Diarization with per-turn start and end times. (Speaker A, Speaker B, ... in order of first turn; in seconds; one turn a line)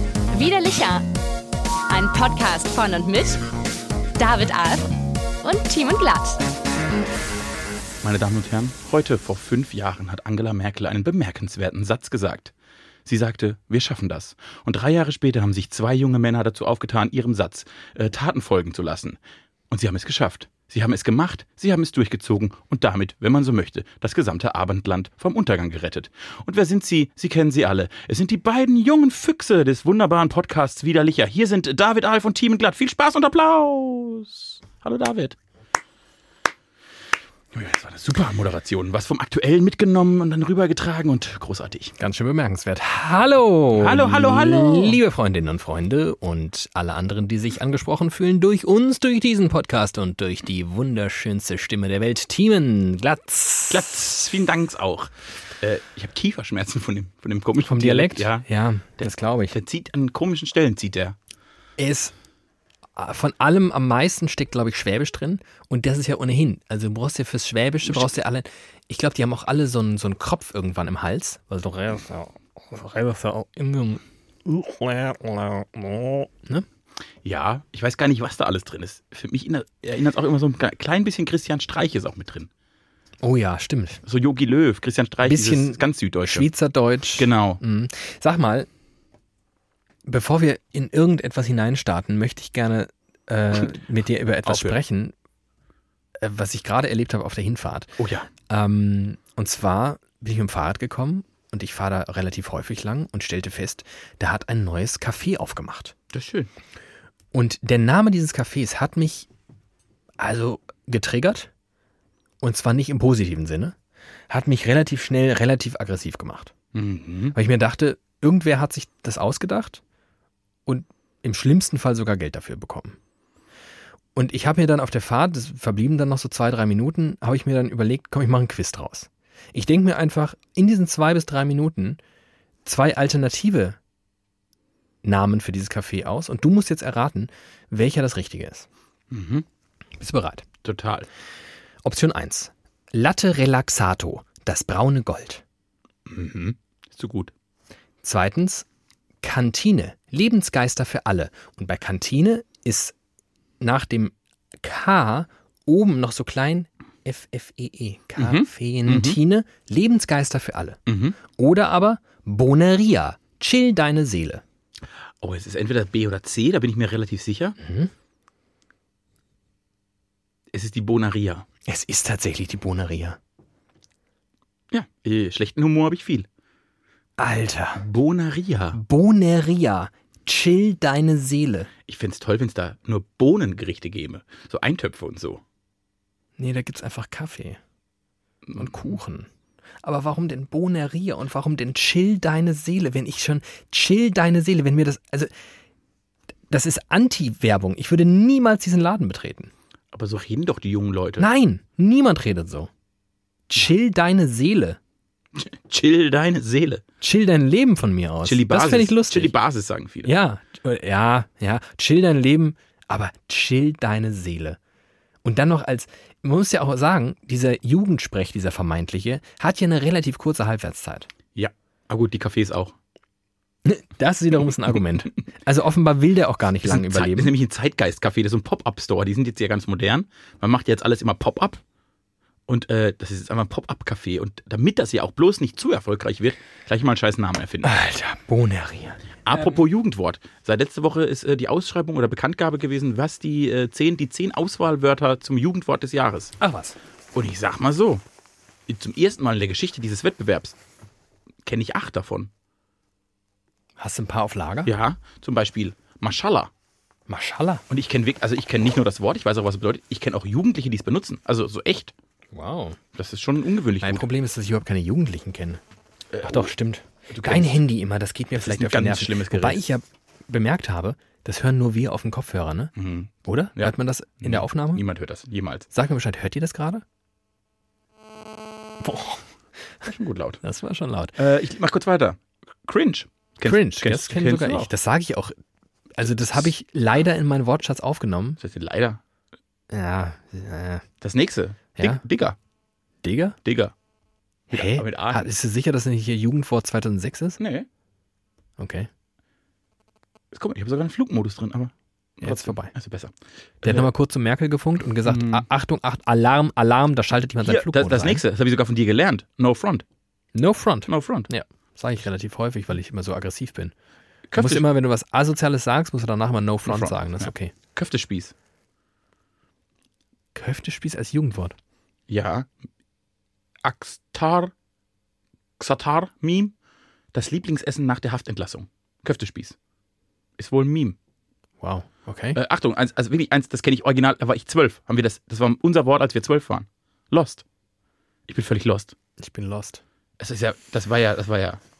Speaker A: 0.3-1.1
Speaker A: 1.9-3.4
Speaker A: 4.2-6.4
Speaker B: 8.0-12.5
Speaker B: 13.0-19.2
Speaker B: 19.7-35.4
Speaker B: 37.5-41.9
Speaker C: 42.0-54.3
Speaker B: 43.7-45.0
Speaker B: 53.7-58.5
Speaker C: 57.6-59.5
Speaker B: 59.0-61.1
Speaker C: 61.8-62.1
Speaker C: 62.9-76.6
Speaker B: 77.2-82.5
Speaker C: 83.2-84.0
Speaker B: 84.0-86.5
Speaker C: 85.2-88.7
Speaker B: 87.2-87.6
Speaker C: 90.0-95.1
Speaker B: 94.4-94.8
Speaker C: 96.2-97.9
Speaker B: 98.0-98.3
Speaker C: 98.5-105.9
Speaker B: 106.1-106.5
Speaker C: 107.3-109.3
Speaker C: 110.2-111.5
Speaker C: 112.4-113.8
Speaker C: 114.3-116.5
Speaker B: 116.7-117.3
Speaker C: 117.3-119.8
Speaker C: 120.7-123.0
Speaker C: 124.1-132.0
Speaker C: 132.6-133.8
Speaker C: 135.0-138.7
Speaker B: 139.1-139.4
Speaker C: 140.0-140.4
Speaker B: 140.6-141.1
Speaker C: 141.8-145.4
Speaker B: 146.1-147.3
Speaker C: 148.0-148.7
Speaker C: 149.2-152.9
Speaker C: 153.6-164.4
Speaker B: 158.2-159.2
Speaker B: 160.9-161.2
Speaker B: 165.2-167.6
Speaker C: 167.6-167.9
Speaker B: 170.5-171.4
Speaker C: 171.7-173.2
Speaker B: 174.7-176.3
Speaker C: 177.2-177.8
Speaker B: 177.8-178.8
Speaker C: 178.7-181.7
Speaker B: 181.9-185.4
Speaker C: 186.4-187.6
Speaker B: 188.4-188.9
Speaker C: 188.6-189.3
Speaker C: 189.8-195.3
Speaker C: 196.5-199.5
Speaker B: 199.9-201.3
Speaker C: 201.2-202.7
Speaker C: 203.5-204.8
Speaker B: 205.3-206.8
Speaker C: 207.0-209.3
Speaker B: 208.2-210.1
Speaker C: 210.0-214.6
Speaker C: 215.2-221.1
Speaker B: 221.3-222.7
Speaker C: 223.6-227.3
Speaker B: 226.6-231.6
Speaker B: 232.5-237.7
Speaker C: 237.6-239.6
Speaker B: 239.2-246.3
Speaker C: 246.4-246.8
Speaker B: 247.1-248.0
Speaker B: 248.7-250.6
Speaker B: 251.4-252.3
Speaker C: 253.8-254.7
Speaker B: 254.7-256.5
Speaker C: 257.1-257.6
Speaker B: 257.7-261.9
Speaker C: 262.3-262.8
Speaker B: 262.9-264.0
Speaker C: 263.8-265.6
Speaker B: 266.1-266.5
Speaker C: 266.2-272.7
Speaker B: 267.1-267.6
Speaker B: 268.4-269.6
Speaker B: 272.8-275.6
Speaker C: 273.2-274.8
Speaker C: 275.7-276.8
Speaker C: 278.8-279.2
Speaker B: 279.8-280.4
Speaker C: 280.4-281.1
Speaker B: 281.2-284.7
Speaker C: 283.4-285.4
Speaker C: 285.9-288.4
Speaker B: 288.4-289.0
Speaker C: 289.7-290.8
Speaker B: 291.0-292.4
Speaker C: 291.8-292.0
Speaker C: 293.0-293.4
Speaker B: 293.4-293.7
Speaker B: 294.5-295.3
Speaker C: 294.5-297.4
Speaker B: 297.4-297.7
Speaker C: 298.6-298.9
Speaker B: 300.3-303.9
Speaker C: 302.2-302.7
Speaker C: 303.6-308.2
Speaker B: 305.0-305.5
Speaker B: 307.4-309.8
Speaker C: 310.3-313.7
Speaker B: 310.9-311.3
Speaker B: 314.3-314.6
Speaker C: 314.4-317.5
Speaker B: 316.6-318.3
Speaker C: 320.3-321.6
Speaker B: 322.1-322.5
Speaker B: 323.6-324.5
Speaker B: 325.6-326.5
Speaker B: 327.1-329.6
Speaker B: 330.4-330.9
Speaker C: 331.6-332.4
Speaker B: 332.3-337.4
Speaker B: 338.3-338.9
Speaker C: 339.2-339.8
Speaker B: 340.2-341.6